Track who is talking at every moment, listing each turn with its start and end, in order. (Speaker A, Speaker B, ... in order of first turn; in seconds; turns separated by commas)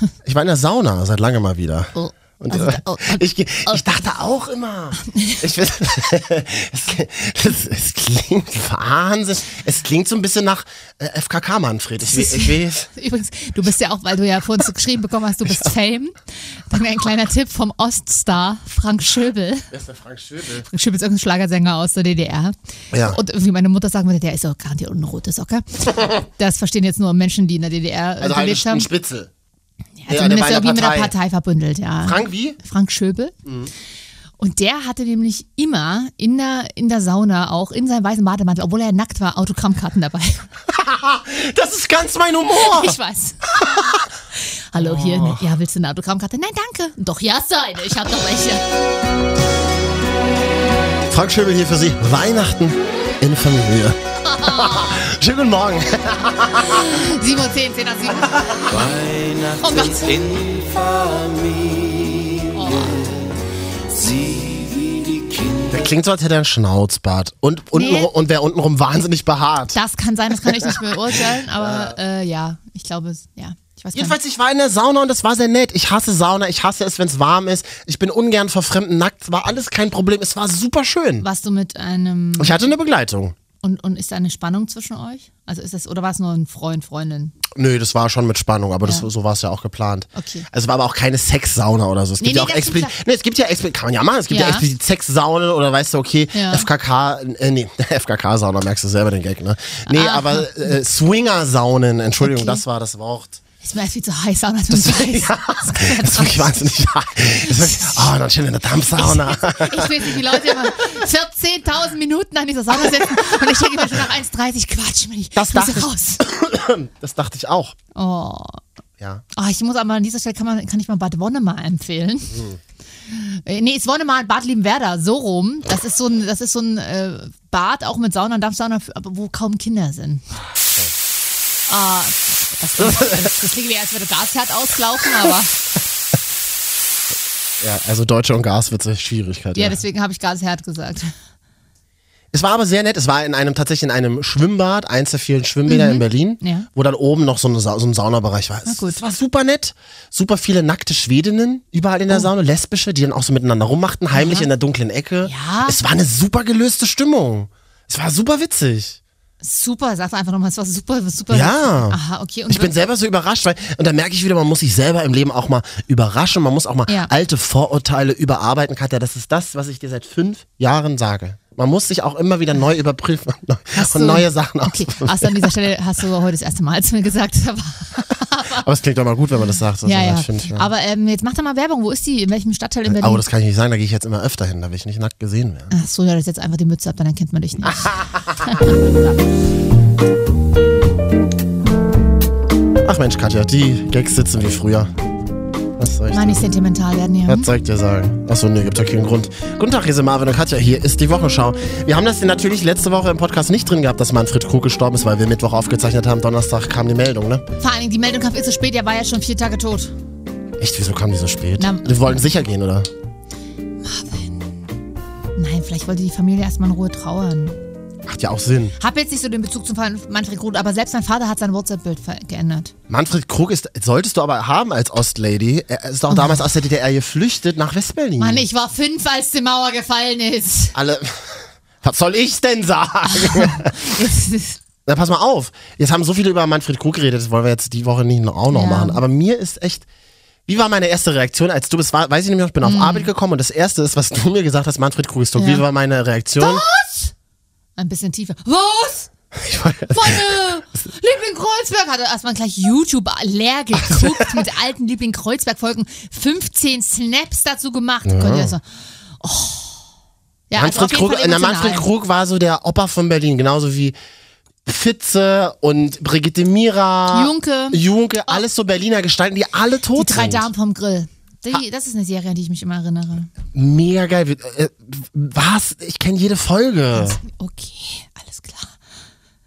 Speaker A: 0.2-12.9, Speaker B: 1.9-3.9, Speaker B: 5.1-5.4, Speaker B: 12.1-19.7, Speaker A: 19.7-20.7, Speaker B: 20.7-28.9, Speaker A: 22.9-23.2, Speaker A: 28.2-29.3, Speaker B: 30.0-33.4, Speaker A: 30.1-31.1, Speaker A: 32.0-32.6, Speaker A: 33.5-33.7, Speaker B: 34.4-40.5, Speaker A: 40.7-43.0, Speaker B: 42.6-43.8, Speaker A: 43.5-44.1, Speaker B: 44.4-48.6, Speaker A: 44.8-45.4, Speaker A: 51.1-56.9, Speaker B: 54.2-55.1, Speaker B: 56.6-58.9, Speaker C: 58.7-63.2, Speaker B: 59.6-60.3, Speaker B: 62.5-63.0, Speaker C: 63.9-65.7, Speaker A: 65.7-69.8, Speaker B: 67.7-68.1, Speaker B: 69.7-74.2, Speaker A: 71.5-72.0, Speaker A: 73.9-81.3, Speaker B: 81.2-82.6, Speaker A: 82.4-83.3, Speaker B: 83.6-87.3, Speaker A: 87.5-103.4, Speaker B: 90.2-90.5, Speaker B: 92.2-93.0, Speaker B: 94.3-94.7, Speaker B: 96.3-96.7, Speaker B: 99.9-100.7, Speaker B: 102.2-102.6, Speaker B: 103.6-106.8, Speaker A: 104.7-110.6, Speaker B: 107.4-108.1, Speaker B: 108.7-116.2, Speaker A: 115.3-117.8, Speaker B: 118.0-118.6, Speaker B: 119.3-122.4, Speaker A: 122.3-122.6, Speaker B: 123.1-130.2, Speaker B: 131.7-135.5, Speaker A: 132.8-133.1, Speaker A: 137.6-139.8, Speaker B: 139.5-141.1, Speaker A: 142.3-159.0, Speaker B: 145.7-146.7, Speaker B: 148.7-149.0, Speaker B: 154.1-154.5, Speaker B: 155.2-155.8, Speaker B: 159.4-162.8, Speaker A: 161.3-162.0, Speaker A: 162.5-175.5, Speaker B: 173.8-178.7, Speaker A: 178.6-180.7, Speaker B: 179.8-183.2, Speaker A: 182.9-185.7, Speaker B: 185.7-188.8, Speaker A: 187.7-188.4, Speaker A: 192.8-194.9, Speaker A: 195.8-196.5, Speaker B: 196.1-197.5, Speaker A: 197.3-207.4, Speaker B: 207.6-209.9, Speaker A: 210.6-212.9, Speaker B: 211.6-212.3, Speaker B: 213.8-214.7, Speaker B: 215.3-217.6, Speaker A: 218.1-218.8, Speaker B: 218.8-222.7, Speaker A: 222.9-228.4, Speaker B: 226.1-226.4, Speaker B: 228.2-230.8, Speaker A: 230.8-233.9, Speaker B: 233.1-234.6, Speaker A: 234.9-239.8, Speaker B: 238.5-239.0, Speaker A: 240.5-246.6, Speaker B: 242.6-243.1, Speaker B: 245.4-245.6, Speaker B: 246.4-247.1, Speaker B: 247.8-249.1, Speaker A: 249.3-250.3, Speaker B: 249.9-258.6, Speaker A: 253.8-254.2, Speaker A: 258.1-258.5, Speaker B: 259.2-259.8, Speaker B: 260.5-261.9, Speaker A: 260.6-264.0, Speaker A: 264.6-270.5, Speaker B: 267.1-268.4, Speaker B: 269.9-273.3, Speaker A: 273.5-277.2, Speaker B: 276.9-278.7